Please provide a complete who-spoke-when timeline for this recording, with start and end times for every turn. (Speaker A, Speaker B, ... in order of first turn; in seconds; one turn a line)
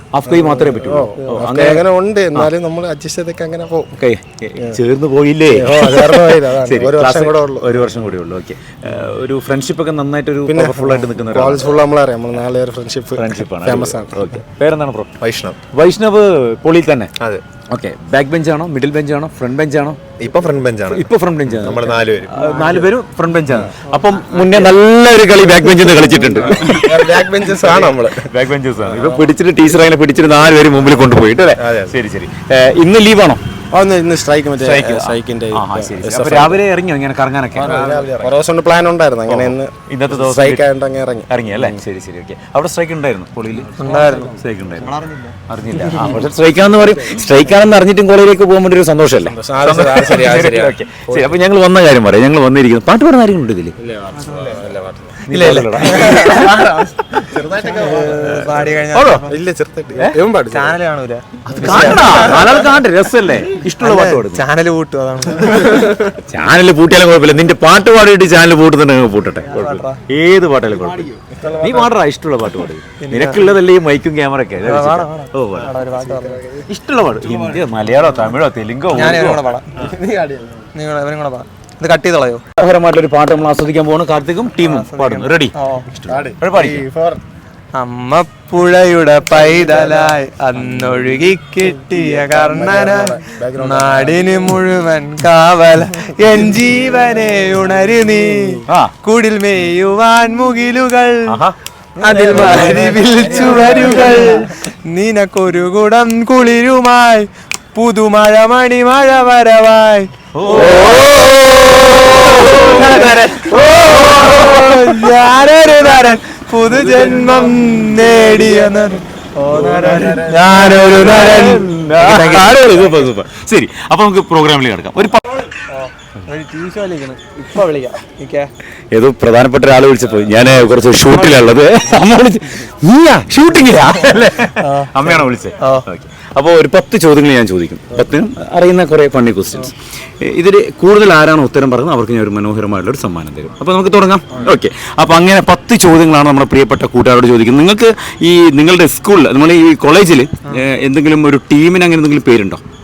Speaker A: 0.1-1.8
Speaker B: 0.3-3.9
Speaker C: 1.1-1.4
Speaker A: 4.0-11.8
Speaker B: 5.5-8.0
Speaker B: 10.5-14.4
Speaker A: 13.2-15.2
Speaker D: 15.2-15.6
Speaker A: 15.7-20.2
Speaker D: 20.2-21.1
Speaker B: 20.2-20.9
Speaker A: 20.9-33.4
Speaker D: 21.7-22.4
Speaker C: 22.4-22.9
Speaker C: 23.9-24.5
Speaker B: 26.2-28.3
Speaker B: 31.6-31.9
Speaker B: 33.7-36.6
Speaker A: 34.6-37.9
Speaker B: 37.5-41.8
Speaker D: 37.6-38.3
Speaker A: 39.3-40.6
Speaker A: 41.3-45.0
Speaker C: 43.8-45.4
Speaker A: 45.5-53.8
Speaker B: 49.3-51.3
Speaker B: 53.8-55.3
Speaker C: 54.1-54.6
Speaker A: 55.3-56.7
Speaker C: 55.3-56.9
Speaker B: 57.1-58.6
Speaker C: 57.5-59.3
Speaker A: 58.9-59.3
Speaker B: 59.2-60.8
Speaker C: 60.5-62.6
Speaker A: 61.5-64.5
Speaker C: 63.6-66.1
Speaker A: 66.2-75.8
Speaker C: 69.5-70.0
Speaker B: 71.1-71.9
Speaker C: 73.0-73.5
Speaker C: 74.6-76.4
Speaker B: 75.8-76.7
Speaker A: 76.7-79.5
Speaker B: 77.3-77.6
Speaker C: 78.9-79.7
Speaker B: 79.8-80.7
Speaker C: 80.8-82.4
Speaker A: 82.6-86.8
Speaker C: 84.6-85.9
Speaker B: 86.0-87.2
Speaker C: 87.7-101.4
Speaker B: 89.6-90.0
Speaker B: 92.0-94.3
Speaker A: 98.7-99.0
Speaker A: 101.3-103.0
Speaker C: 102.0-110.1
Speaker B: 102.5-104.1
Speaker A: 110.3-116.2
Speaker C: 113.6-122.2
Speaker B: 119.5-120.6
Speaker A: 120.4-125.3
Speaker C: 125.7-128.5
Speaker A: 128.9-152.6
Speaker C: 131.3-131.7
Speaker C: 134.6-135.1
Speaker C: 135.6-135.9